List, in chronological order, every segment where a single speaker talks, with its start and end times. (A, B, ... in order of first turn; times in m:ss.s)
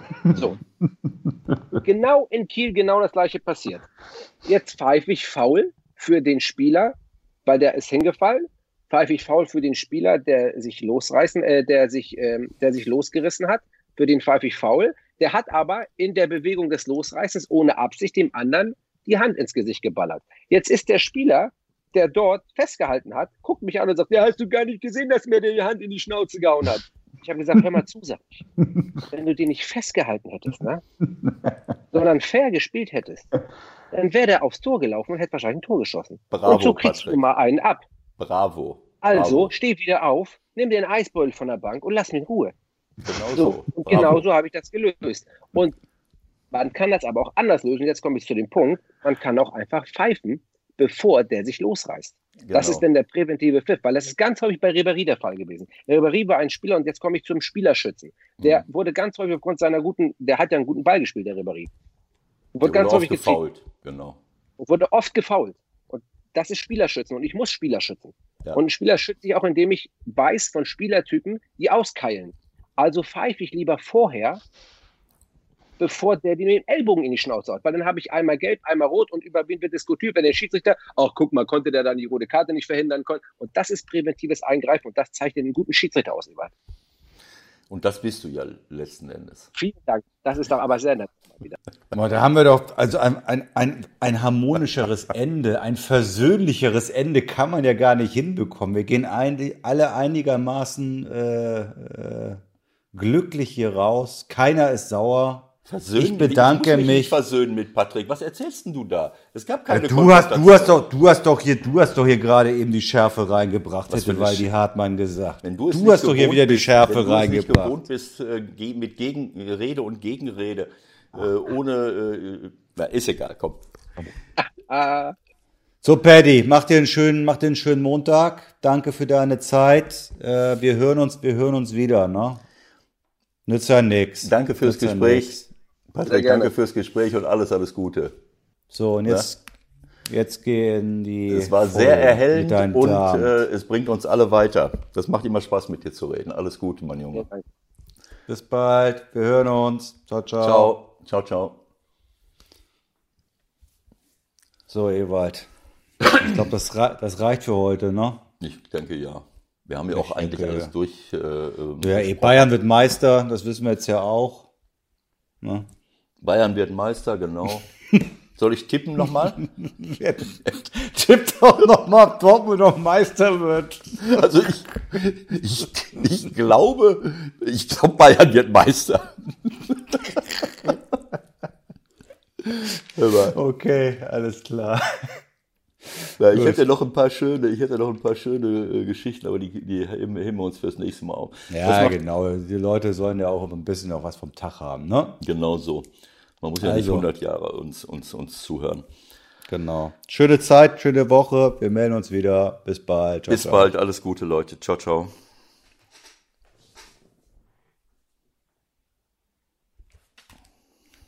0:00.3-0:00.6 A
0:01.8-0:03.9 A
0:04.4-0:07.0 A
0:07.5-0:28.5 A
0:29.1-0:30.8 A
0:31.9-0:33.3 A
0:33.9-0:37.8 A
0:36.3-0:37.2 B
0:38.2-0:39.5 B
0:39.0-0:42.5 A
0:43.0-0:44.2 B
0:43.4-0:45.8 A
0:46.5-1:01.7 A
0:52.4-0:52.8 B
0:58.4-0:58.6 B
1:02.6-1:03.4 A
1:02.6-1:04.2 B
1:04.6-1:14.4 A
1:15.8-1:26.5 A
1:27.7-1:29.5 B
1:29.6-1:31.6 A
1:31.9-1:42.4 C
1:42.9-1:47.1 C
1:45.7-1:50.8 B
1:49.7-1:57.8 C
1:53.9-1:54.5 B
1:55.4-2:03.6 B
2:04.4-2:05.2 A
2:05.8-2:12.4 C
2:13.5-2:15.4 C
2:14.2-2:18.1 B
2:16.1-2:16.5 A
2:18.7-2:19.4 C
2:20.1-2:23.3 C
2:21.3-2:27.3 B
2:27.1-2:27.4 A
2:28.3-2:30.7 C
2:30.4-2:31.6 B
2:34.7-2:35.5 C
2:36.1-2:38.2 C
2:38.4-2:42.5 B
2:39.9-2:40.7 C
2:41.8-2:44.5 C
2:46.2-2:47.7 B
2:48.4-2:49.5 B
2:49.6-2:54.1 C
2:54.0-3:00.8 B
3:02.5-3:03.4 B
3:03.3-3:05.2 C
3:06.2-3:12.0 B
3:06.3-3:06.6 C
3:11.5-3:15.2 C
3:15.2-3:15.9 B
3:16.4-3:18.8 B
3:16.6-3:17.1 C
3:19.5-3:23.7 C
3:23.3-3:25.1 B